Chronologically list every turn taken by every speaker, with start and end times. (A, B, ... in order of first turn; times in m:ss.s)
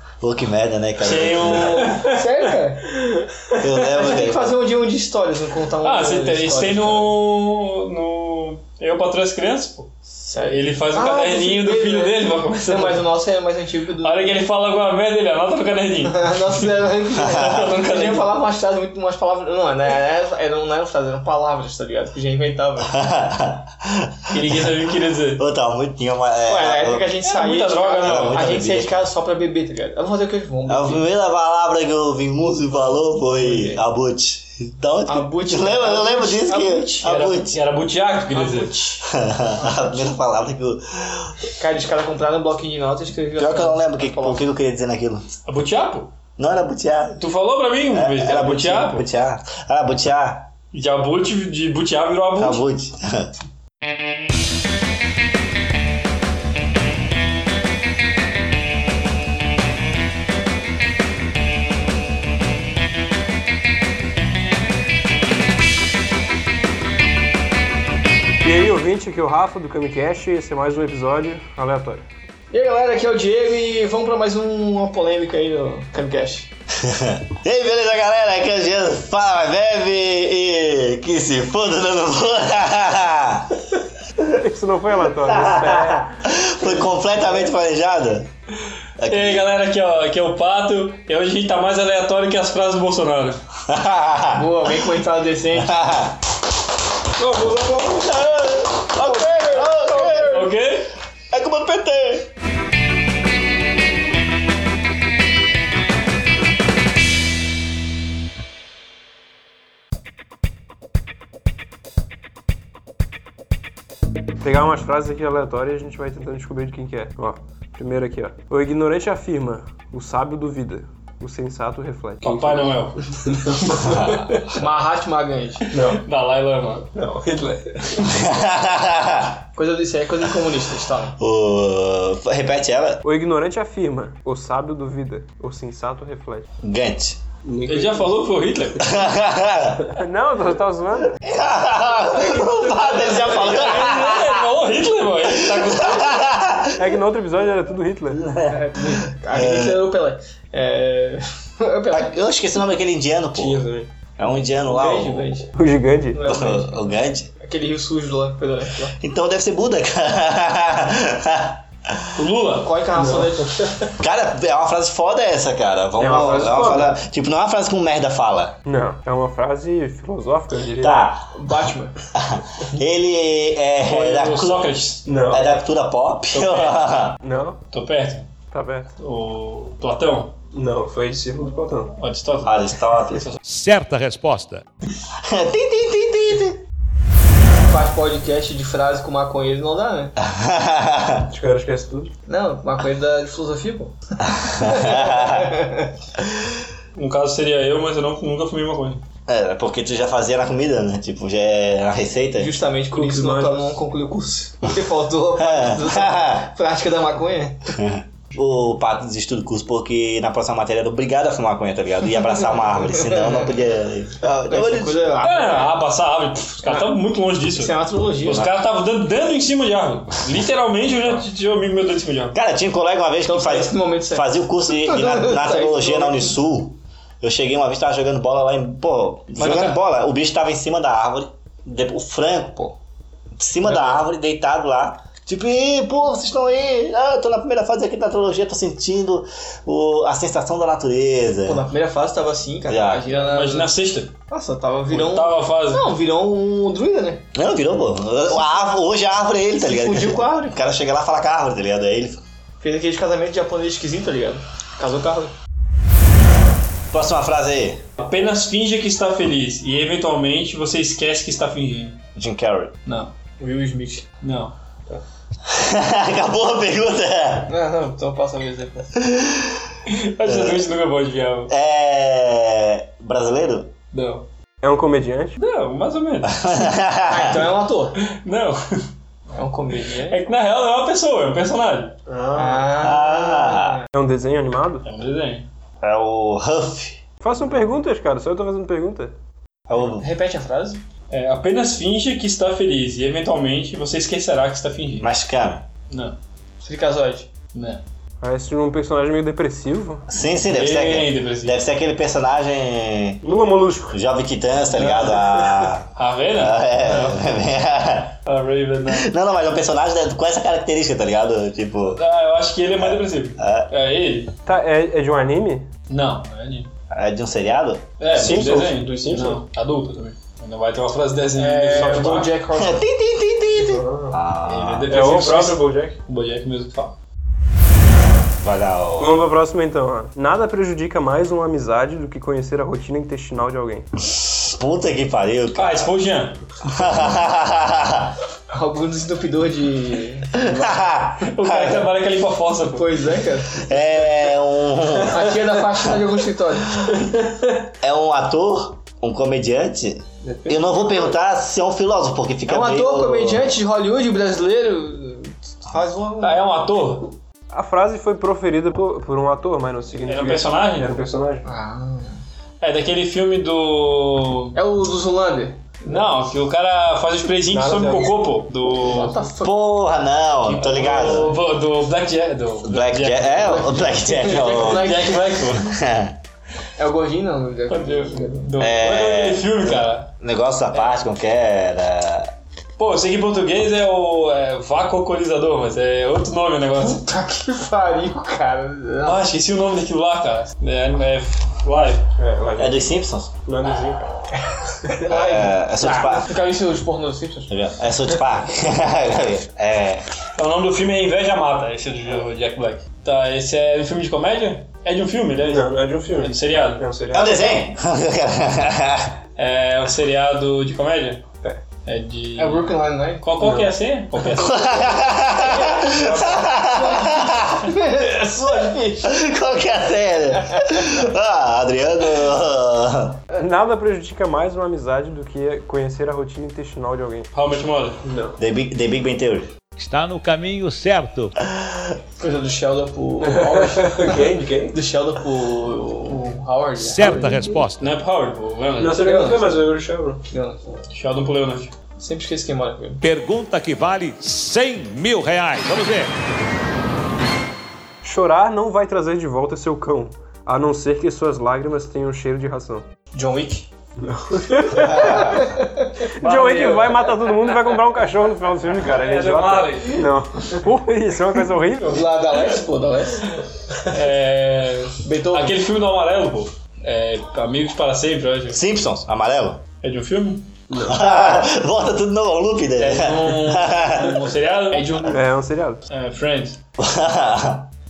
0:00.2-0:01.8 A
0:01.0-0:02.3 B
0:01.4-0:02.9 C
0:03.6-0:04.6 A
0:03.8-0:07.1 C
0:05.8-0:13.1 B
0:10.2-0:14.3 C
0:14.0-0:16.7 B
0:16.1-0:22.9 C
0:17.3-0:18.3 B
0:22.9-0:24.8 A
0:24.3-0:25.4 B
0:25.4-0:27.1 A
0:26.5-0:31.0 C
0:27.2-0:28.4 B
0:28.0-0:29.0 A
0:30.7-0:37.6 A
0:33.3-0:33.8 C
0:35.1-0:37.2 C
0:37.0-0:38.7 B
0:38.3-0:39.0 C
0:39.0-0:41.4 A
0:39.6-0:40.1 C
0:41.6-0:44.4 C
0:43.4-0:45.3 A
0:45.4-0:46.1 B
0:46.4-0:47.2 A
0:47.2-0:49.0 B
0:47.9-0:50.5 A
0:50.7-0:52.6 B
0:52.4-0:53.3 A
1:08.4-1:12.0 D
1:12.5-1:16.5 C
1:16.8-1:23.6 A
1:24.3-1:26.1 D
1:25.2-1:28.3 A
1:29.0-1:29.4 A
1:29.0-1:33.4 B
1:33.7-1:34.7 A
1:34.3-1:35.7 C
1:35.6-1:36.2 A
1:37.2-1:38.0 D
1:38.0-1:40.5 A
1:39.0-1:40.4 C
1:40.3-1:40.9 B
1:41.3-1:42.3 A
1:54.4-2:03.6 D
2:02.2-2:04.0 B
2:03.8-2:04.4 A
2:04.5-2:05.6 C
2:05.7-2:06.0 D
2:05.7-2:06.9 B
2:06.9-2:08.1 D
2:08.1-2:09.4 A
2:09.6-2:11.2 C
2:11.2-2:13.0 A
2:13.0-2:16.5 D
2:16.6-2:17.2 A
2:17.4-2:18.2 D
2:17.6-2:18.9 B
2:18.8-2:19.9 A
2:19.9-2:21.2 D
2:21.2-2:24.5 A
2:22.5-2:23.3 C
2:23.2-2:26.3 B
2:25.2-2:27.0 A
2:26.8-2:28.2 D
2:28.2-2:29.8 A
2:28.4-2:32.2 C
2:31.9-2:35.3 A
2:33.4-2:33.9 D
2:34.6-2:35.5 C
2:35.5-2:36.2 D
2:36.1-2:36.7 C
2:36.2-2:37.3 A
2:37.4-2:38.9 C
2:39.0-2:42.2 A
2:42.2-2:42.7 B
2:42.6-2:43.6 C
2:42.9-2:43.7 D
2:44.0-2:48.6 A
2:46.0-2:47.0 D
2:48.6-2:51.1 D
2:50.8-2:51.3 A
2:51.3-2:51.9 C
2:52.1-2:54.7 A
2:53.8-2:55.4 B
2:55.0-2:55.4 D
2:55.3-2:57.2 A
2:56.3-2:56.8 B
2:57.2-2:57.6 D
2:57.7-2:58.3 B
2:58.5-2:58.9 D
2:59.0-3:00.3 B
3:00.5-3:01.9 D
3:01.9-3:03.4 B
3:02.4-3:03.3 A
3:03.4-3:04.6 E
3:05.2-3:06.6 A
3:07.7-3:10.1 C
3:10.2-3:11.3 A
3:11.3-3:12.1 D
3:12.3-3:13.9 C
3:14.2-3:15.5 A
3:14.6-3:15.9 C
3:16.9-3:19.0 B
3:19.3-3:22.5 A
3:22.4-3:27.7 C
3:22.9-3:23.7 D
3:25.4-3:26.5 A
3:27.7-3:35.2 A
3:32.9-3:33.5 C
3:34.5-3:35.7 C
3:35.2-3:42.4 B
3:36.6-3:36.9 C
3:37.5-3:38.5 C
3:42.3-3:52.8 A
3:43.2-3:46.3 C
3:49.4-3:49.7 B
3:49.4-3:49.7 C
3:53.4-4:01.6 A
3:53.6-3:54.0 C
4:01.4-4:03.7 C
4:02.7-4:03.0 A
4:03.2-4:04.1 B
4:04.3-4:07.2 C
4:04.9-4:05.9 B
4:07.3-4:12.2 A
4:09.6-4:10.5 C
4:12.6-4:15.3 C
4:16.9-4:17.8 A
4:18.0-4:22.0 B
4:22.2-4:22.7 A
4:23.4-4:24.0 C
4:24.2-4:24.5 B
4:25.5-4:27.5 A
4:27.5-4:28.9 C
4:29.0-4:29.6 A
4:29.9-4:31.5 B
4:30.2-4:30.7 A
4:31.5-4:33.7 A
4:33.9-4:34.2 B
4:34.6-4:35.4 D
4:35.4-4:36.6 B
4:36.2-4:37.5 A
4:37.1-4:38.0 C
4:38.0-4:38.8 B
4:39.3-4:40.2 C
4:40.0-4:42.0 B
4:42.1-4:42.8 D
4:42.3-4:43.8 C
4:42.8-4:43.8 A
4:43.9-4:44.8 D
4:44.8-4:45.5 B
4:45.8-4:47.0 A
4:47.2-4:49.1 D
4:49.7-4:50.0 A
4:49.8-4:50.8 C
4:51.1-4:55.1 B
4:55.0-4:55.6 A
4:55.9-4:56.2 B
4:56.6-4:57.3 C
4:57.5-4:57.8 B
4:58.2-5:00.0 D
5:00.1-5:03.2 A
5:00.5-5:01.6 B
5:03.2-5:04.0 D
5:03.9-5:08.1 A
5:04.8-5:05.7 D
5:05.9-5:07.3 B
5:08.2-5:09.1 B
5:08.8-5:12.0 A
5:11.9-5:14.3 B
5:12.7-5:13.7 A
5:14.4-5:15.7 D
5:15.9-5:16.7 B
5:16.9-5:17.9 A
5:18.0-5:22.3 B
5:18.1-5:19.4 D
5:21.3-5:22.8 C
5:21.7-5:22.3 D
5:22.6-5:25.0 A
5:23.6-5:24.2 D
5:24.4-5:27.0 B
5:24.9-5:26.0 D
5:28.4-5:29.2 A
5:29.0-5:33.9 D
5:34.1-5:35.9 A
5:35.6-5:36.4 B
5:36.7-5:38.1 A
5:38.5-5:40.4 C
5:40.3-5:41.9 A
5:41.2-5:42.9 B
5:42.7-5:43.7 C
5:43.6-5:45.4 A
5:45.1-5:47.0 C
5:47.8-5:53.5 A
5:50.2-5:51.0 D
5:52.4-5:56.4 C
5:56.2-5:57.2 B
5:57.5-6:01.4 D
6:00.1-6:01.0 B
6:01.4-6:02.2 C
6:02.6-6:04.6 B
6:04.5-6:06.0 C
6:05.8-6:09.1 B
6:07.4-6:08.3 D
6:08.8-6:09.8 C
6:09.4-6:11.3 A
6:10.5-6:13.8 B
6:10.7-6:11.2 C
6:12.6-6:14.9 A
6:13.4-6:15.3 C
6:14.4-6:15.8 B
6:15.5-6:16.2 A
6:16.8-6:18.4 C
6:17.7-6:20.1 B
6:18.6-6:22.3 A
6:22.8-6:27.0 B
6:26.8-6:29.2 C
6:29.0-6:32.0 B
6:32.2-6:32.8 D
6:32.6-6:33.3 A
6:33.4-6:34.0 D
6:34.8-6:37.5 C
6:35.0-6:36.3 A
6:37.5-6:40.0 A
6:40.4-6:46.8 B
6:45.4-6:47.4 D
6:47.1-6:49.1 A
6:49.4-6:51.2 B
6:51.8-6:54.6 B
6:52.4-6:53.2 C
6:53.4-6:53.8 D
6:54.4-6:57.7 A
6:54.6-6:59.1 C
6:56.0-6:56.4 D
6:59.0-7:03.2 A
7:03.3-7:07.3 D
7:07.3-7:08.0 B
7:08.0-7:08.4 D
7:08.4-7:09.5 A
7:09.8-7:11.3 E
7:12.2-7:17.6 C
7:13.2-7:14.8 D
7:16.8-7:17.9 E
7:17.8-7:19.0 B
7:18.8-7:20.2 D
7:18.9-7:19.7 C
7:20.3-7:20.6 C
7:20.9-7:21.7 B
7:22.0-7:23.0 C
7:23.0-7:26.1 E
7:28.0-7:32.8 D
7:33.1-7:33.7 C
7:34.0-7:35.3 D
7:34.7-7:35.4 A
7:35.0-7:36.6 C
7:36.2-7:42.1 D
7:36.5-7:36.8 B
7:38.8-7:40.2 B
7:41.8-7:43.3 C
7:43.8-7:48.6 B
7:45.0-7:45.6 C
7:48.5-7:49.6 A
7:49.8-7:50.5 B
7:50.7-7:51.0 D
7:50.8-7:54.2 A
7:52.8-7:55.2 B
7:54.7-7:55.2 C
7:55.1-7:55.8 D
7:55.9-7:56.6 B
7:56.8-7:57.7 A